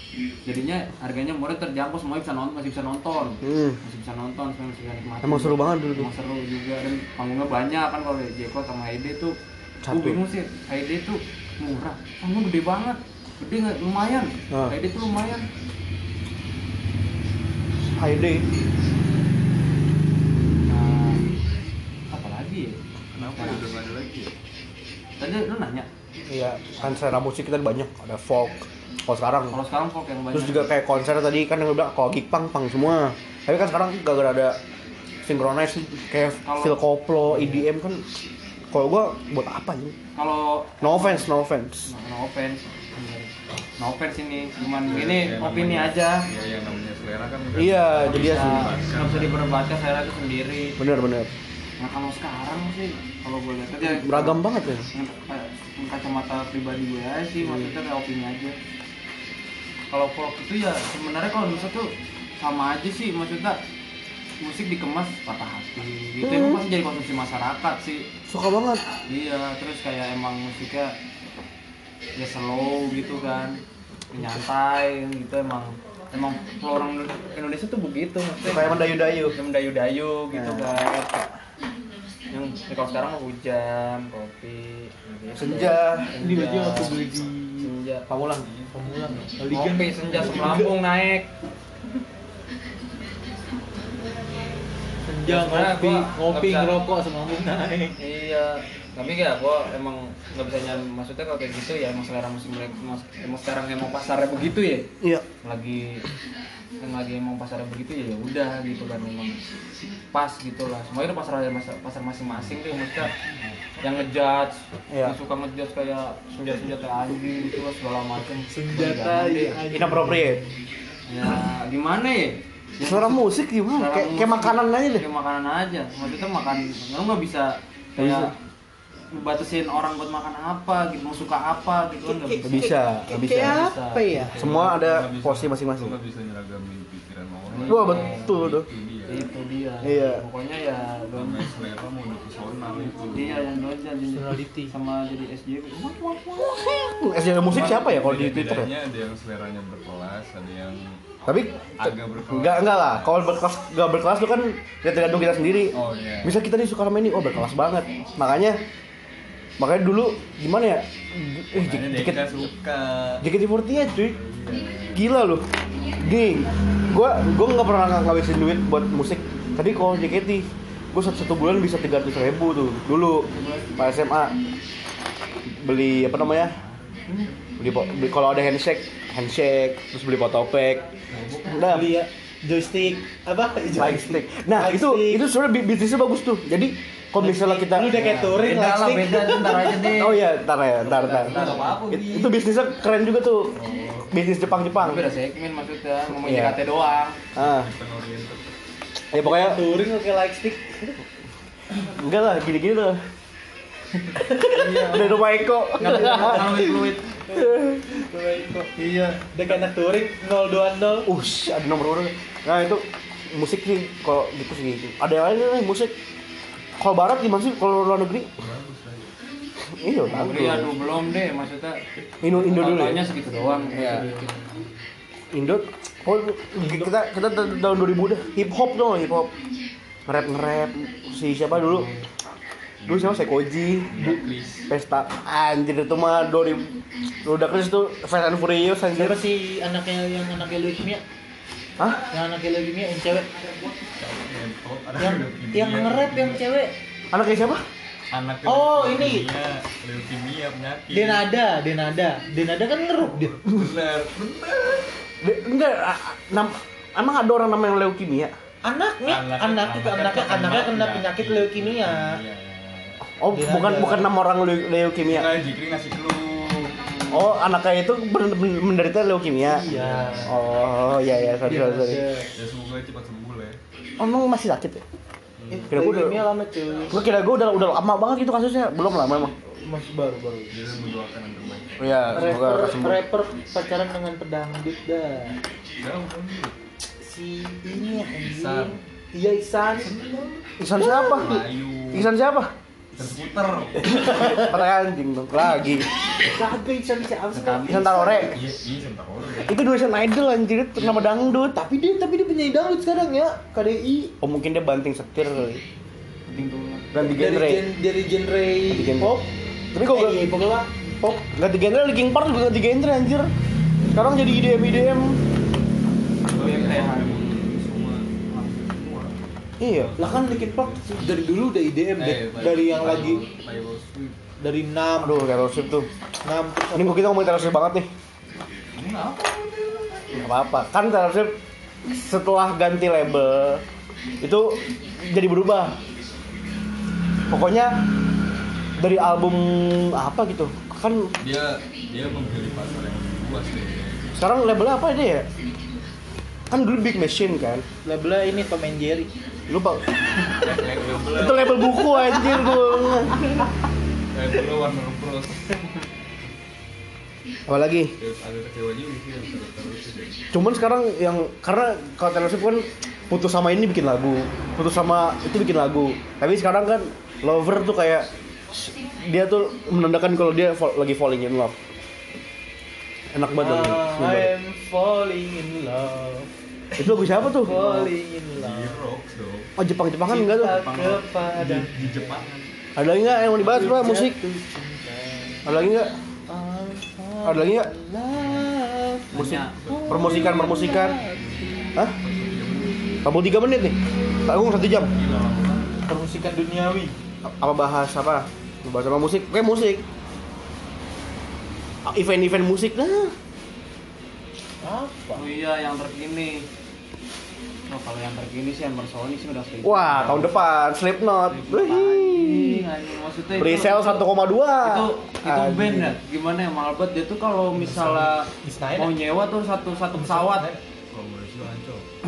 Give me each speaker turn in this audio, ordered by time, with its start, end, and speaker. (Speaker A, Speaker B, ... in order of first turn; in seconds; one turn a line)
Speaker A: 0.4-9.3
Speaker B: 3.4-3.8
Speaker B: 5.2-6.1
Speaker B: 9.8-10.2
Speaker A: 9.9-15.4
Speaker B: 17.9-18.4
Speaker A: 20.7-21.3
Speaker A: 22.1-23.8
Speaker C: 23.1-24.3
Speaker A: 25.2-25.9
Speaker B: 26.3-29.6
Speaker A: 29.5-30.7
Speaker B: 30.3-34.6
Speaker B: 35.2-38.1
Speaker A: 36.4-37.7
Speaker B: 38.7-40.0
Speaker A: 40.1-41.3
Speaker B: 40.8-41.9
Speaker A: 41.9-46.2
Speaker C: 44.9-49.3
Speaker B: 47.5-48.7
Speaker A: 48.1-50.8
Speaker B: 50.8-51.3
Speaker A: 51.8-58.6
Speaker B: 53.8-54.9
Speaker B: 57.4-57.7
Speaker A: 59.9-63.6
Speaker A: 64.4-68.1
Speaker B: 66.2-66.6
Speaker B: 68.3-68.8
Speaker A: 69.1-70.9
Speaker A: 72.2-81.3
Speaker B: 78.5-79.3
Speaker B: 80.3-80.8
Speaker A: 82.3-87.0
Speaker B: 85.3-86.2
Speaker D: 86.2-87.7
Speaker A: 87.6-88.1
Speaker B: 88.1-88.5
Speaker D: 88.7-90.8
Speaker A: 89.5-91.3
Speaker D: 95.0-98.0
Speaker A: 95.2-96.7
Speaker A: 98.0-106.0
Speaker A: 106.8-109.5
Speaker A: 110.1-113.1
Speaker A: 113.8-119.6
Speaker B: 114.9-115.2
Speaker D: 118.3-120.5
Speaker B: 119.7-120.4
Speaker A: 121.1-128.3
Speaker B: 122.8-125.0
Speaker B: 128.0-128.3
Speaker A: 129.1-134.6
Speaker D: 132.0-134.4
Speaker B: 132.4-133.7
Speaker B: 134.3-136.0
Speaker C: 134.3-139.3
Speaker A: 137.5-138.4
Speaker B: 137.6-138.7
Speaker A: 139.1-141.5
Speaker B: 139.8-140.2
Speaker C: 141.1-143.4
Speaker A: 143.1-146.6
Speaker D: 144.1-144.7
Speaker B: 146.3-148.7
Speaker C: 147.5-151.0
Speaker B: 151.2-158.6
Speaker C: 151.8-153.2
Speaker C: 155.7-156.4
Speaker B: 159.6-162.3
Speaker C: 161.5-163.2
Speaker B: 163.2-164.2
Speaker C: 164.1-165.0
Speaker B: 164.9-165.5
Speaker B: 166.0-174.4
Speaker A: 173.3-173.7
Speaker B: 175.4-176.6
Speaker C: 175.9-177.2
Speaker A: 177.1-177.3
Speaker B: 177.6-180.8
Speaker C: 181.1-181.7
Speaker B: 181.5-181.9
Speaker D: 181.6-185.2
Speaker B: 183.7-188.1
Speaker D: 187.2-189.8
Speaker A: 187.9-190.3
Speaker B: 189.7-195.1
Speaker A: 190.8-191.9
Speaker C: 191.0-192.4
Speaker C: 193.5-194.7
Speaker A: 194.8-197.2
Speaker B: 196.1-196.6
Speaker C: 197.3-198.4
Speaker B: 197.3-197.7
Speaker B: 199.1-199.6
Speaker D: 199.2-201.0
Speaker B: 201.8-203.0
Speaker B: 204.2-206.7
Speaker D: 204.3-205.1
Speaker A: 204.4-207.2
Speaker D: 205.8-211.1
Speaker B: 207.3-207.8
Speaker A: 208.8-209.6
Speaker B: 211.0-215.9
Speaker B: 216.8-218.3
Speaker C: 218.4-219.1
Speaker B: 219.6-220.7
Speaker A: 220.1-224.4
Speaker B: 222.2-223.0
Speaker C: 223.7-224.4
Speaker B: 223.7-224.1
Speaker B: 225.3-229.3
Speaker D: 226.6-226.9
Speaker B: 230.1-231.9
Speaker A: 231.6-232.0
Speaker C: 232.8-233.3
Speaker B: 232.9-234.2
Speaker C: 233.9-234.7
Speaker B: 234.7-239.2
Speaker D: 238.9-241.0
Speaker D: 242.1-243.4
Speaker C: 243.9-246.4
Speaker D: 245.0-246.7
Speaker B: 247.1-247.6
Speaker C: 248.1-251.2
Speaker D: 248.4-249.3
Speaker D: 250.9-253.4
Speaker C: 253.0-254.9
Speaker B: 255.2-258.3
Speaker D: 258.6-262.2
Speaker C: 259.1-263.0
Speaker B: 263.1-265.3
Speaker D: 263.3-264.1
Speaker C: 265.0-267.3
Speaker B: 267.1-269.6
Speaker D: 269.4-270.4
Speaker C: 269.7-270.4
Speaker B: 270.2-272.0
Speaker D: 271.1-272.3
Speaker C: 272.3-273.6
Speaker B: 274.0-274.8
Speaker C: 275.4-275.7
Speaker D: 275.5-277.0
Speaker B: 275.7-276.2
Speaker B: 276.9-279.3
Speaker D: 279.5-280.5
Speaker C: 280.5-282.4
Speaker B: 281.8-283.0
Speaker D: 282.1-285.4
Speaker C: 285.8-286.5
Speaker D: 287.0-291.4
Speaker C: 288.2-288.8
Speaker B: 290.6-291.4
Speaker C: 290.8-292.1
Speaker B: 291.9-292.5
Speaker C: 292.9-294.2
Speaker D: 293.8-294.5
Speaker B: 294.0-295.9
Speaker D: 296.2-298.4
Speaker A: 297.3-298.1
Speaker B: 297.6-298.4
Speaker C: 298.2-299.6
Speaker B: 299.5-301.6
Speaker D: 300.8-304.1
Speaker B: 304.2-305.6
Speaker A: 306.3-306.9
Speaker B: 306.9-307.7
Speaker D: 307.0-309.3
Speaker B: 308.7-309.2
Speaker B: 309.7-310.3
Speaker D: 309.8-310.7
Speaker B: 311.0-313.3
Speaker B: 313.9-315.2
Speaker C: 316.3-321.3
Speaker A: 316.3-317.8
Speaker B: 319.6-320.1
Speaker D: 320.0-323.2
Speaker C: 321.9-324.2
Speaker D: 324.4-325.3
Speaker B: 325.0-325.9
Speaker D: 326.2-327.0
Speaker B: 326.7-327.9
Speaker C: 328.7-329.3
Speaker B: 330.1-331.4
Speaker B: 331.9-333.6
Speaker B: 334.2-335.8
Speaker B: 337.3-337.9
Speaker B: 338.8-341.1
Speaker C: 341.2-344.2
Speaker B: 344.1-345.3
Speaker B: 346.5-347.6
Speaker D: 347.8-349.1
Speaker B: 349.5-349.9
Speaker C: 350.2-351.9
Speaker B: 351.1-353.3
Speaker C: 354.1-355.6
Speaker B: 357.5-357.9
Speaker C: 358.0-360.2
Speaker B: 360.3-371.6
Speaker B: 373.1-374.3
Speaker D: 373.4-378.9
Speaker B: 376.8-377.9
Speaker C: 378.3-379.5
Speaker B: 379.6-380.6
Speaker D: 380.1-382.2
Speaker C: 380.8-382.5
Speaker B: 382.8-384.2
Speaker D: 383.3-385.5
Speaker B: 385.4-386.0
Speaker D: 386.3-391.7
Speaker B: 387.2-387.7
Speaker C: 388.1-388.5
Speaker A: 389.1-389.8
Speaker B: 389.1-391.0
Speaker C: 389.6-389.9
Speaker C: 392.0-392.9
Speaker B: 393.0-394.9
Speaker C: 394.8-395.8
Speaker D: 395.9-396.9
Speaker B: 397.2-399.8
Speaker B: 401.8-403.1
Speaker D: 404.6-405.3
Speaker A: 405.1-406.5
Speaker A: 407.7-410.4
Speaker B: 409.6-412.6
Speaker A: 411.3-414.1
Speaker B: 413.3-416.0
Speaker A: 414.6-420.5
Speaker D: 417.5-419.0
Speaker D: 419.9-420.6
Speaker C: 420.9-421.9